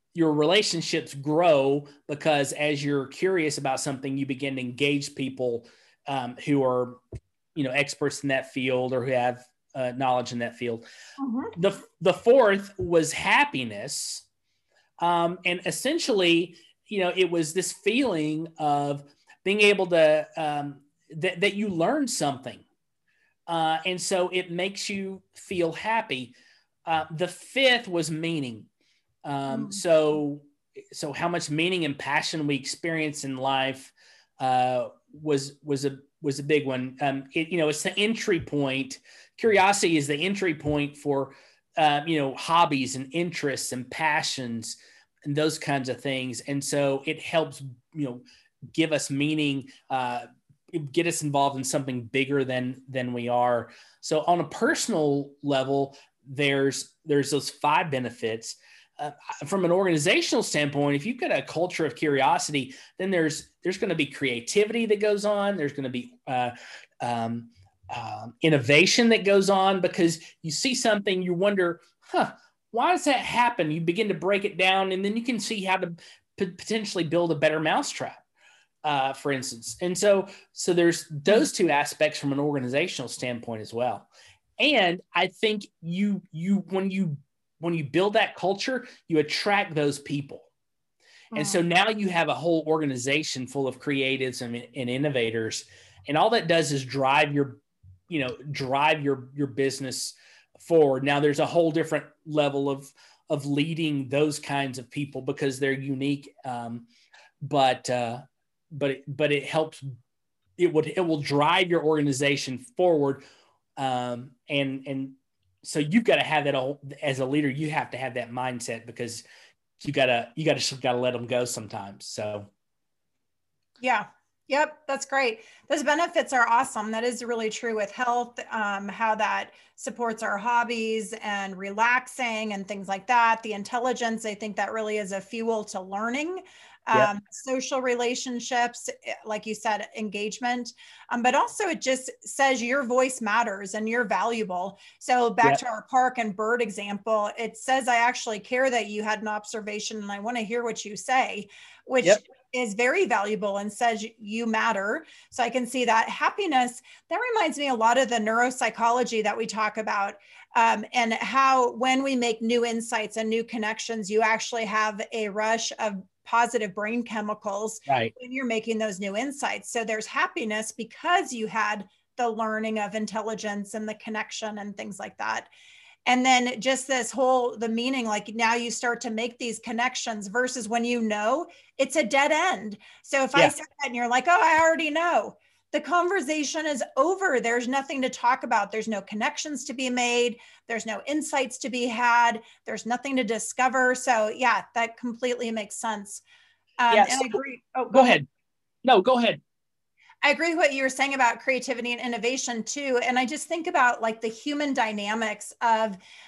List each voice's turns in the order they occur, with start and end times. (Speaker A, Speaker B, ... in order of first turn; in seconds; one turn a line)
Speaker A: 0.1-7.0
Speaker A: 7.5-10.8
Speaker B: 11.2-11.6
Speaker A: 11.6-14.2
Speaker A: 15.0-22.6
Speaker A: 23.5-26.3
Speaker A: 26.9-28.7
Speaker A: 29.2-78.2
Speaker B: 29.5-29.8
Speaker A: 78.8-84.1
Speaker A: 84.6-90.5
Speaker B: 91.3-91.6
Speaker A: 91.4-106.9
Speaker A: 107.4-109.9
Speaker A: 110.6-113.2
Speaker A: 113.8-119.2
Speaker A: 119.8-122.5
Speaker B: 123.8-175.5
Speaker A: 167.9-168.1
Speaker B: 176.1-196.2
Speaker B: 196.8-198.2
Speaker A: 196.9-197.4
Speaker A: 197.9-198.3
Speaker A: 198.8-199.4
Speaker B: 200.2-206.0